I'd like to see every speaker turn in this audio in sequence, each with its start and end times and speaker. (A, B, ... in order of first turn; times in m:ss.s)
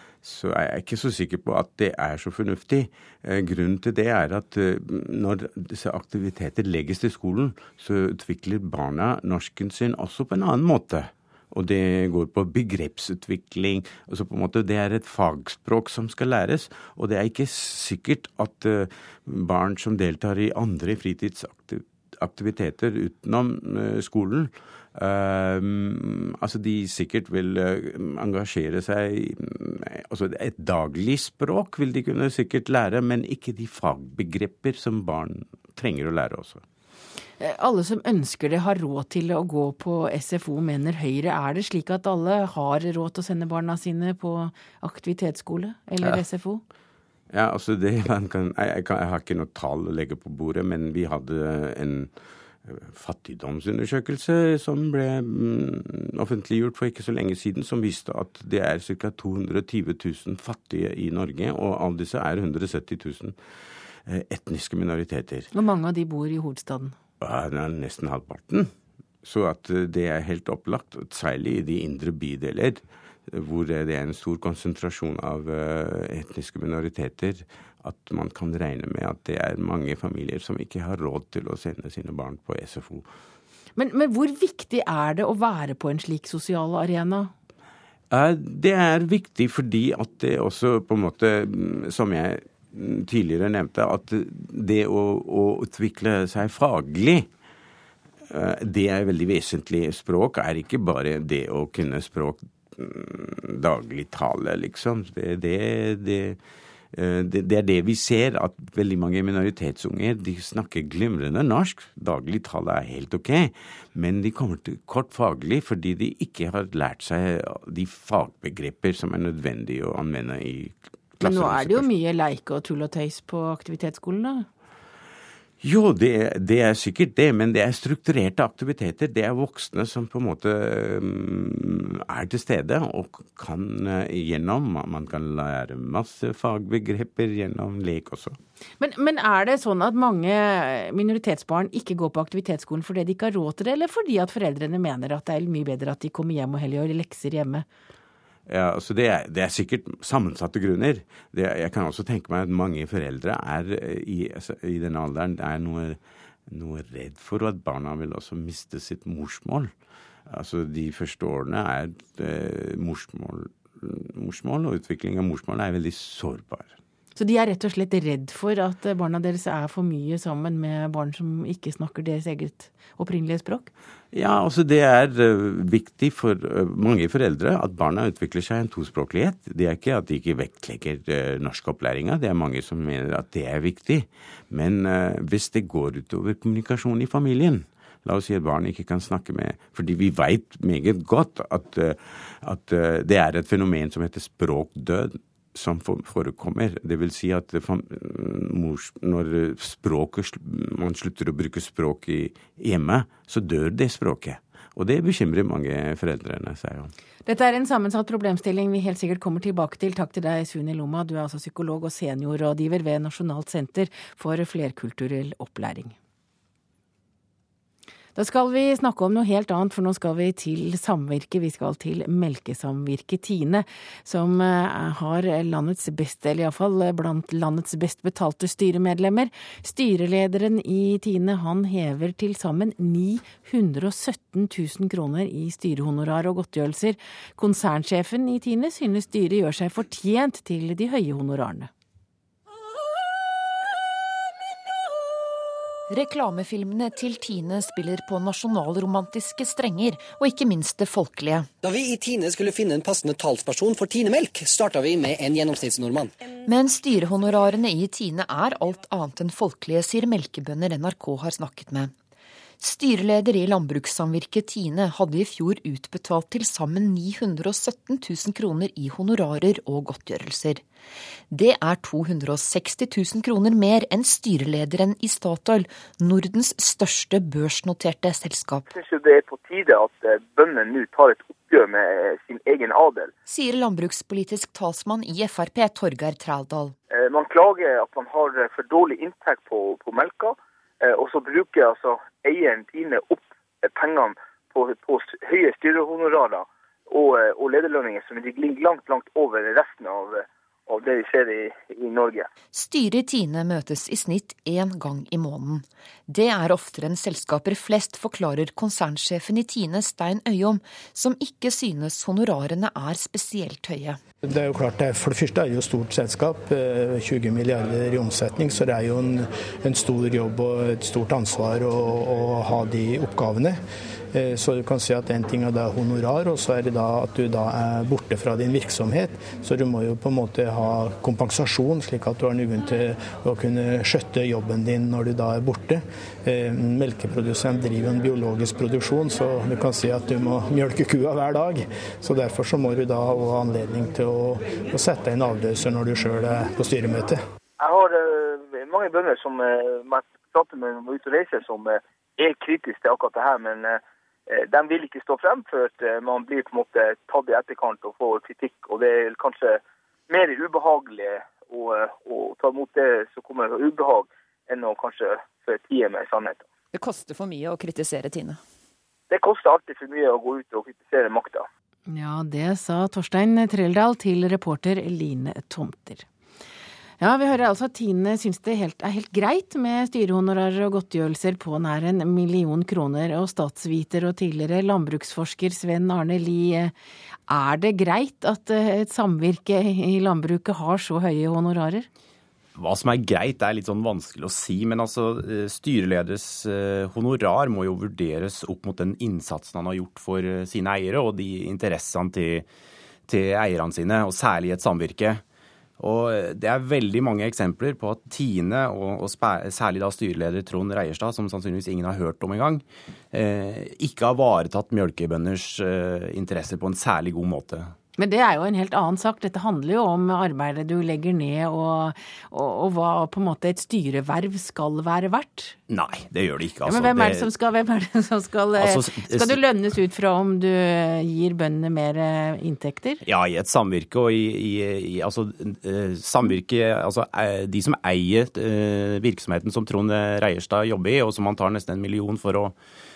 0:00.2-0:36.6 A
0:37.4-0:46.6 B
0:47.3-0:52.1 A
0:52.6-1:03.4 A
1:04.1-1:05.5 A
1:05.5-1:07.0 B
1:07.2-1:08.7 A
1:09.2-1:23.0 A
1:23.8-1:27.3 B
1:28.1-1:37.3 A
1:38.3-1:46.4 A
1:46.9-2:01.9 A
2:01.2-2:04.5 B
2:05.6-2:18.4 A
2:18.8-2:27.6 B
2:28.5-2:39.7 A
2:40.3-2:46.8 A
2:47.2-2:53.7 B
2:54.1-3:26.9 A
3:27.3-3:36.0 B
3:38.2-4:01.7 B
4:05.9-4:11.5 C
4:12.3-4:14.0 D
4:15.3-4:16.1 D
4:16.4-4:21.9 C
4:22.6-4:30.6 C
4:31.3-4:38.7 C
4:38.7-4:43.1 E
4:43.3-4:46.8 C
4:46.9-5:02.3 E
5:02.5-5:14.0 C
5:14.3-5:23.6 F
5:24.1-5:47.2 F
5:47.6-6:06.5 E
6:09.1-6:11.5 E
6:11.9-6:16.1 B
6:17.0-6:26.7 B
6:27.3-6:31.9 B
6:32.6-6:42.4 G
6:43.1-6:45.2 G
6:45.8-6:57.7 G
6:58.0-7:05.6 B
7:05.7-7:07.3 G
7:06.6-7:13.0 B
7:08.6-7:09.4 G
7:13.0-7:22.6 G